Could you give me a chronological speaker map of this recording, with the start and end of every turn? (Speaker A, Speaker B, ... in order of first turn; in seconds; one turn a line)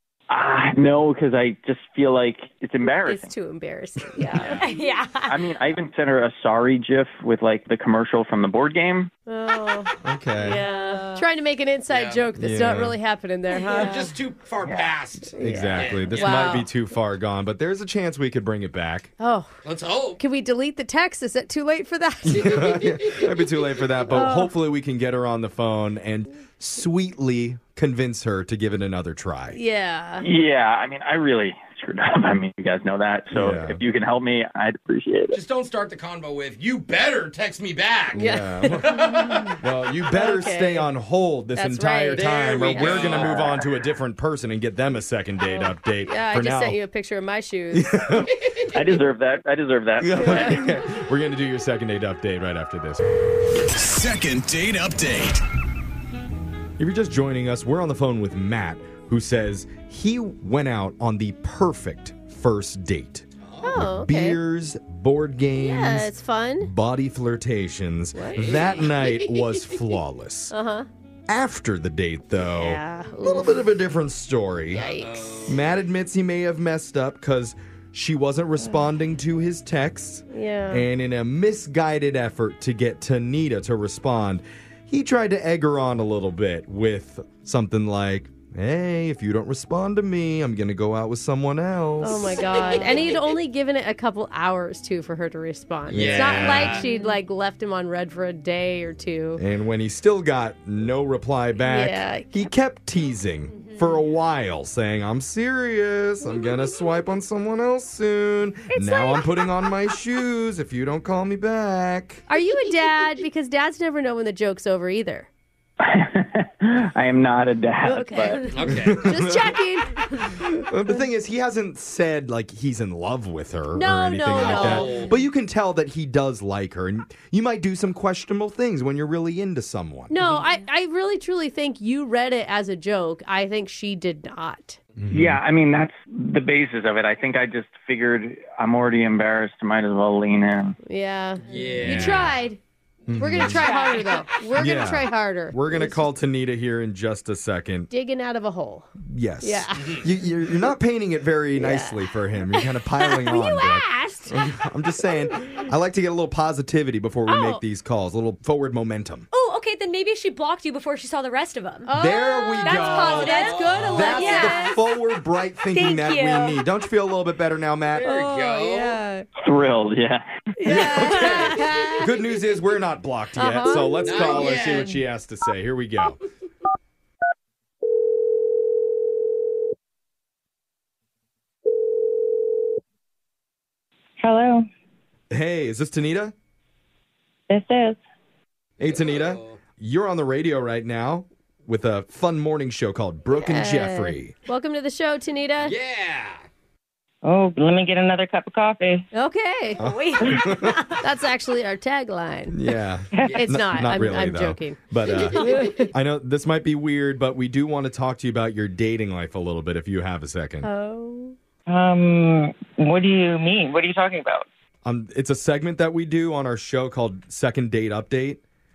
Speaker A: 0.3-3.3
Speaker B: 3.0-4.7
Speaker C: 4.3-4.6
Speaker D: 4.5-5.3
Speaker A: 5.3-9.1
Speaker B: 9.2-14.1
Speaker E: 10.0-10.6
Speaker D: 10.4-11.2
Speaker C: 11.9-12.3
Speaker E: 12.4-13.0
Speaker C: 13.7-16.6
Speaker B: 15.3-16.7
Speaker E: 15.4-19.1
Speaker B: 19.2-19.5
Speaker C: 19.6-20.2
Speaker B: 20.2-22.9
Speaker E: 22.2-29.6
Speaker B: 24.1-24.5
Speaker B: 29.5-30.2
Speaker A: 30.2-35.4
Speaker E: 33.3-33.8
Speaker C: 35.3-39.5
Speaker E: 38.1-39.0
Speaker B: 38.1-39.5
Speaker E: 39.6-46.8
Speaker B: 40.1-40.9
Speaker B: 41.5-43.5
Speaker C: 42.1-43.5
Speaker B: 45.4-47.9
Speaker E: 47.7-48.3
Speaker A: 48.7-50.5
Speaker E: 50.0-53.0
Speaker B: 50.1-50.6
Speaker E: 56.8-70.5
Speaker C: 63.4-63.8
Speaker B: 63.6-64.4
Speaker B: 65.6-66.7
Speaker B: 68.1-68.7
Speaker C: 68.3-69.4
Speaker B: 70.5-70.9
Speaker E: 71.3-74.8
Speaker B: 72.5-73.6
Speaker C: 74.7-75.8
Speaker B: 74.7-75.4
Speaker E: 75.5-92.7
Speaker B: 80.3-80.8
Speaker B: 92.0-99.4
Speaker C: 92.5-93.1
Speaker D: 92.7-93.0
Speaker E: 95.9-96.8
Speaker C: 95.9-96.8
Speaker D: 96.8-97.2
Speaker E: 99.4-112.2
Speaker B: 101.6-102.5
Speaker D: 103.5-104.0
Speaker B: 108.7-109.2
Speaker B: 112.3-115.3
Speaker A: 115.8-118.5
Speaker B: 117.8-118.5
Speaker D: 118.1-118.4
Speaker C: 118.5-119.0
Speaker E: 118.7-119.5
Speaker B: 119.0-120.0
Speaker E: 120.3-130.1
Speaker B: 123.7-125.1
Speaker C: 124.3-125.1
Speaker B: 130.1-134.8
Speaker E: 135.0-135.4
Speaker A: 135.1-140.8
Speaker B: 140.8-142.6
Speaker C: 141.5-142.3
Speaker D: 141.5-141.8
Speaker E: 141.8-142.3
Speaker E: 143.1-143.7
Speaker B: 143.2-146.0
Speaker D: 143.5-144.3
Speaker E: 144.6-147.9
Speaker B: 147.9-148.9
Speaker E: 149.0-159.3
Speaker B: 149.4-149.9
Speaker C: 149.8-150.0
Speaker B: 151.6-152.0
Speaker B: 153.3-153.7
Speaker D: 153.3-154.0
Speaker B: 157.3-157.6
Speaker D: 159.3-161.9
Speaker B: 161.8-164.8
Speaker E: 161.9-168.1
Speaker D: 162.6-164.8
Speaker C: 162.9-164.2
Speaker D: 165.7-166.6
Speaker C: 167.9-169.0
Speaker B: 168.0-169.3
Speaker A: 169.4-170.5
Speaker B: 170.6-172.1
Speaker E: 170.7-176.2
Speaker C: 170.7-171.7
Speaker B: 173.3-174.5
Speaker C: 174.0-175.0
Speaker F: 184.2-184.7
Speaker E: 185.3-186.3
Speaker F: 187.5-188.0
Speaker E: 188.8-194.3
Speaker C: 188.8-189.6
Speaker B: 193.3-195.7
Speaker C: 195.6-196.4
Speaker F: 197.2-199.1
Speaker B: 199.1-199.8
Speaker D: 199.8-201.0
Speaker E: 199.8-200.8
Speaker B: 201.0-202.6
Speaker E: 202.5-210.7
Speaker C: 203.2-203.5
Speaker B: 203.3-204.8
Speaker B: 205.4-205.9
Speaker B: 210.6-211.3
Speaker F: 211.7-214.4
Speaker E: 214.8-218.4